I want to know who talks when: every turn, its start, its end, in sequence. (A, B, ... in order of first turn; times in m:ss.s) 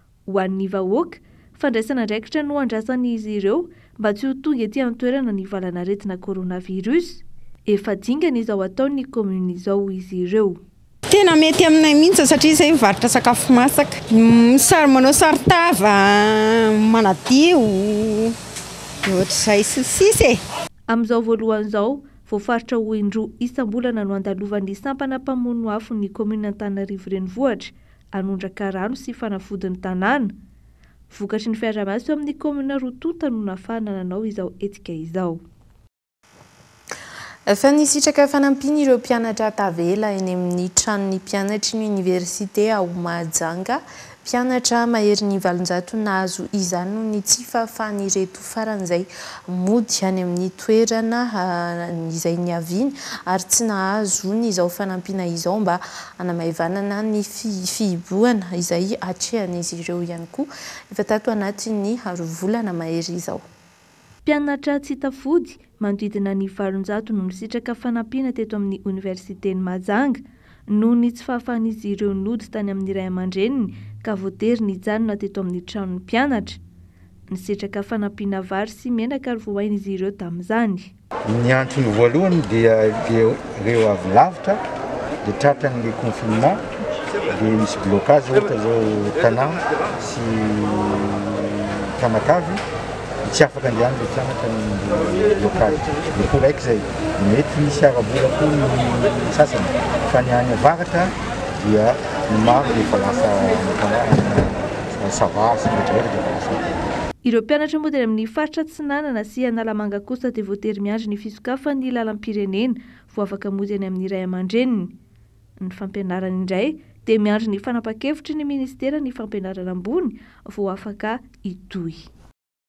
0:00.3-0:10.6 A
0:11.1-0:18.4 B
0:19.0-0:20.4 B
0:20.9-0:30.3 A
0:31.1-0:35.4 A
0:37.5-1:03.4 C
1:04.2-1:16.6 A
1:17.3-1:20.9 A
1:21.2-1:24.6 D
1:25.2-1:26.6 D
1:27.3-1:32.6 D
1:33.2-1:46.6 D
1:47.2-1:54.9 A
1:55.6-2:02.1 A